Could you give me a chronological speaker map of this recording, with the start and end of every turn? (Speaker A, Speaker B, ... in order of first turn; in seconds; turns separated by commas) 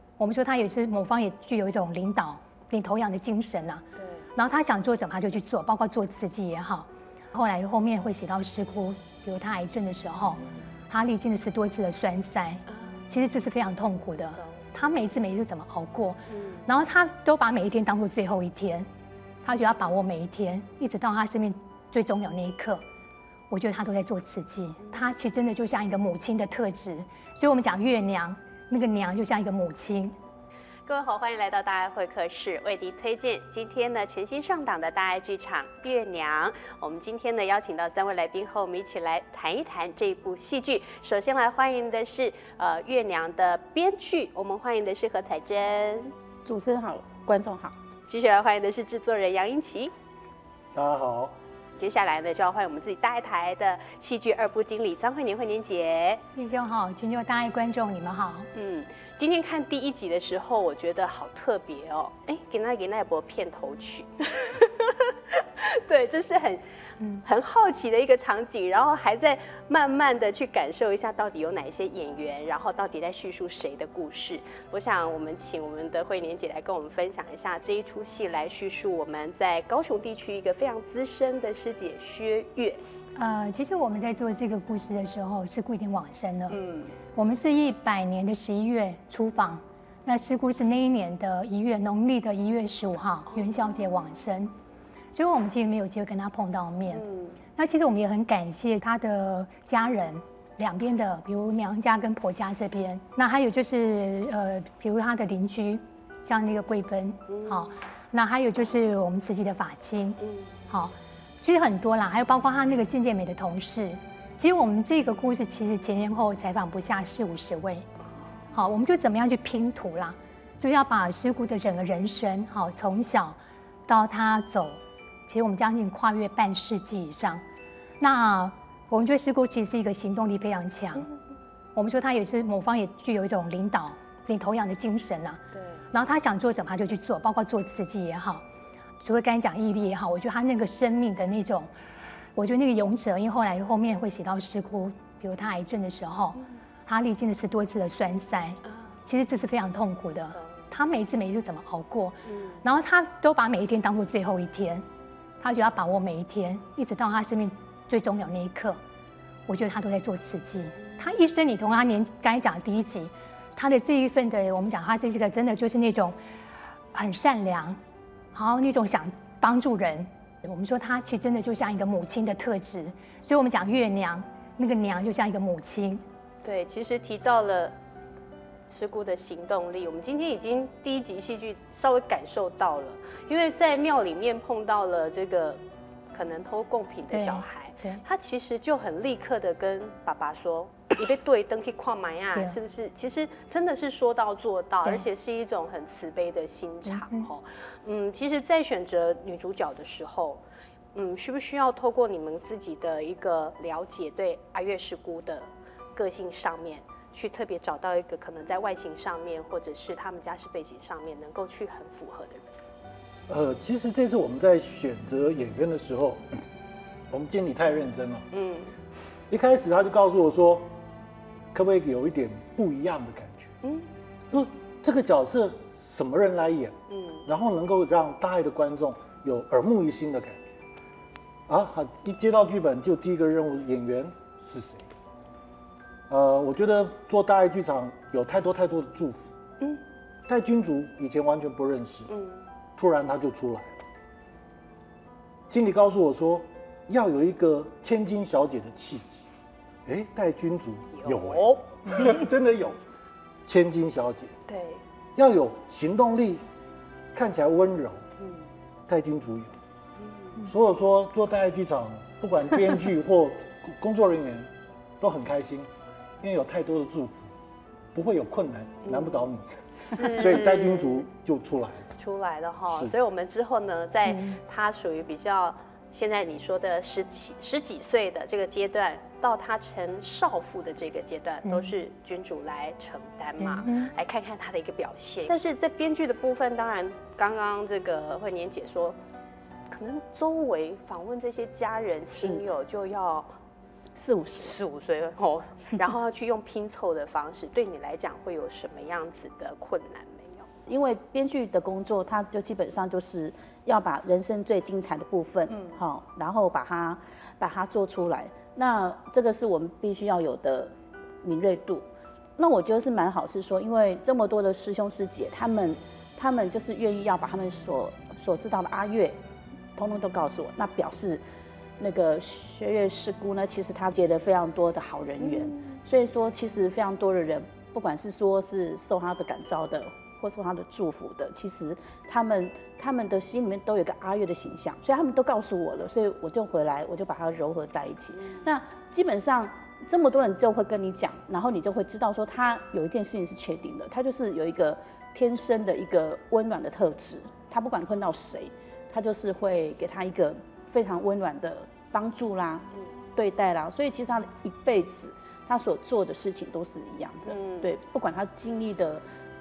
Speaker A: 0.2-18.9, Speaker B: 4.0-4.2, Speaker B: 16.3-16.6, Speaker A: 19.4-22.8, Speaker A: 23.5-30.1, Speaker B: 30.9-46.1, Speaker C: 46.4-47.7, Speaker B: 48.1-49.9, Speaker D: 50.7-51.3, Speaker B: 51.8-56.2, Speaker A: 56.3-58.5, Speaker B: 58.5-66.6, Speaker B: 67.2-82.8, Speaker A: 83.2-86.6, Speaker B: 86.5-86.9, Speaker A: 87.1-94.5, Speaker A: 95.1-97.0, Speaker B: 96.9-97.3, Speaker A: 97.5-117.8, Speaker B: 107.3-107.7, Speaker B: 110.2-110.5, Speaker A: 118.5-123.3, Speaker A: 123.9-127.4, Speaker A: 128.0-131.1, Speaker A: 131.7-135.4, Speaker B: 135.5-135.8, Speaker A: 135.9-138.4, Speaker A: 139.0-141.7, Speaker A: 142.3-154.8, Speaker A: 155.4-158.8, Speaker A: 159.5-166.2, Speaker A: 166.9-167.8, Speaker A: 168.3-176.0, Speaker B: 176.4-177.7, Speaker B: 178.7-185.6, Speaker B: 186.1-200.4, Speaker A: 187.1-188.0, Speaker A: 196.9-197.3, Speaker B: 200.9-212.4, Speaker D: 213.3-216.4, Speaker D: 217.1-218.2, Speaker B: 218.3-218.7, Speaker D: 219.3-220.7, Speaker D: 221.5-223.5, Speaker B: 223.6-223.9, Speaker D: 224.3-230.4, Speaker B: 226.9-227.2, Speaker D: 231.5-234.9, Speaker D: 236.1-239.3, Speaker D: 240.3-242.1, Speaker B: 242.1-242.4, Speaker D: 242.8-243.8, Speaker D: 245.5-249.2, Speaker D: 249.8-252.8, Speaker B: 251.0-251.6, Speaker D: 253.4-254.3, Speaker B: 254.5-254.8, Speaker D: 255.2-256.4, Speaker D: 257.1-258.0, Speaker B: 258.2-258.4, Speaker D: 258.9-259.5, Speaker B: 260.0-260.4, Speaker D: 260.4-265.7, Speaker D: 266.2-267.3, Speaker D: 267.9-271.9, Speaker B: 268.8-271.0, Speaker B: 272.0-289.0, Speaker D: 272.7-272.9, Speaker A: 274.1-274.4, Speaker A: 281.4-281.7, Speaker A: 283.4-283.9, Speaker B: 289.7-293.3, Speaker C: 293.9-294.6, Speaker B: 294.4-300.5, Speaker C: 300.7-311.8, Speaker B: 305.5-305.8, Speaker C: 312.4-319.2, Speaker C: 319.8-321.2, Speaker C: 321.8-352.6, Speaker C: 353.1-359.0, Speaker B: 357.3-357.7